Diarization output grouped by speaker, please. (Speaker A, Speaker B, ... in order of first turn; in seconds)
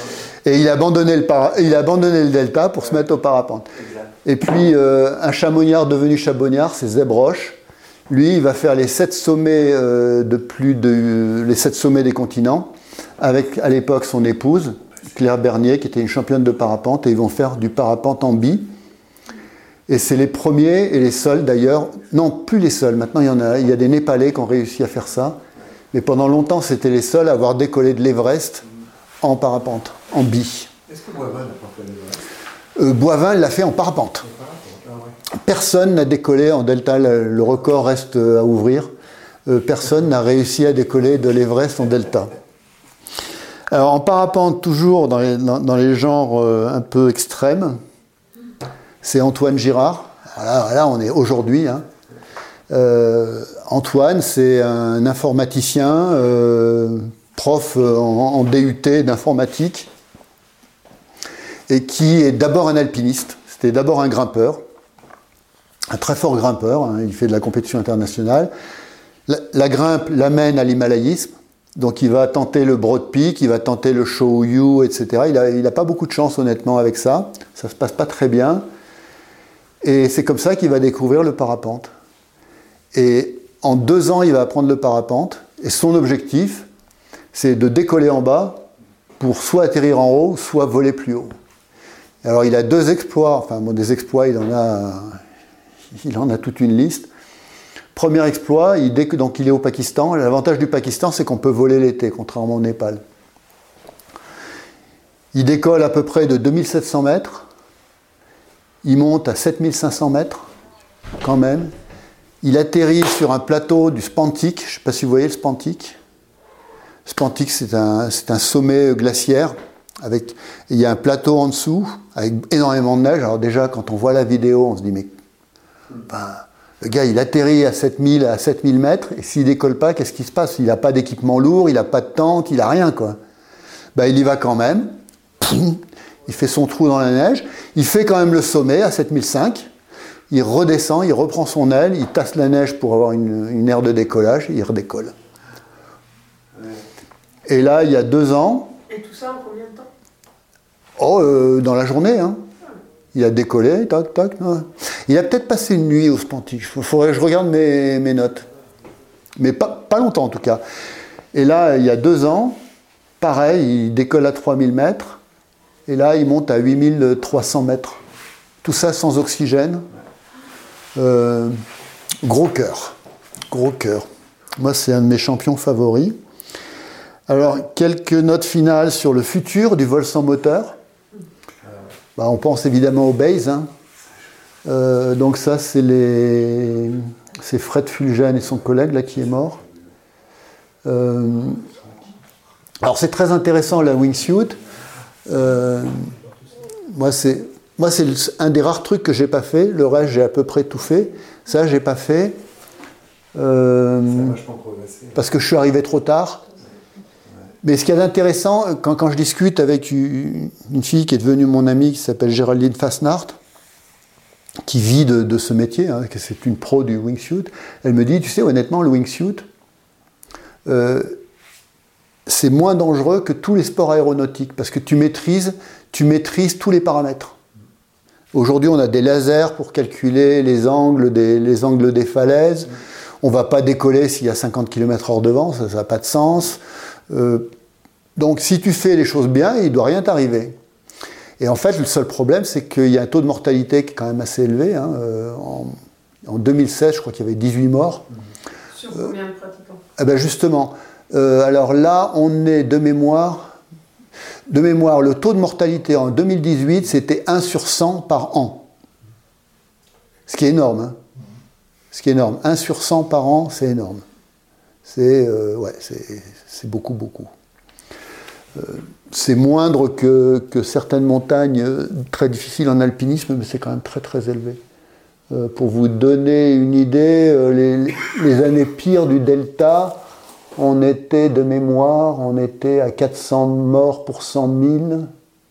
Speaker A: 0.4-3.7, 4.2-7.6, 8.1-18.7, 19.9-25.4, 25.9-28.6, 29.2-30.7, 32.8-34.2, 35.4-38.9, 39.5-42.3, 43.7-47.8, 49.0-51.9, 52.7-59.9, 61.7-64.6, 65.9-68.5, 69.3-78.7, 79.8-81.9, 82.9-86.7, 87.3-88.7, 89.2-91.3, 92.2-95.2, 95.9-97.1, 97.9-103.0, 105.3-107.5, 108.8-110.5, 111.2-111.7, 112.4-116.0, 117.0-125.1, 126.0-133.2, 133.9-139.7, 140.3-145.1, 147.4-148.8, 151.0-152.4, 153.1-158.5, 159.4-160.6, 161.3-162.6, 163.2-165.2, 165.9-168.0, 168.6-169.9, 170.9-171.6, 172.2-172.9, 173.5-176.2, 177.3-180.8, 182.2-183.7, 184.6-189.6, 190.8-191.7, 192.8-194.6, 195.2-196.1, 196.9-202.4, 203.3-204.4, 205.1-206.4, 207.6-213.3, 214.7-219.4, 220.7-221.2, 222.2-227.4, 228.3-237.5, 238.2-240.5, 241.4-248.0, 250.0-253.5, 254.5-258.6, 260.3-261.0, 261.9-264.0, 264.8-267.3, 268.6-274.6, 275.3-280.0, 280.6-285.1
Speaker B: 3.7-4.1, 30.9-32.2, 34.2-35.1, 146.6-146.8, 204.0-205.2
Speaker C: 148.9-149.9, 248.7-249.8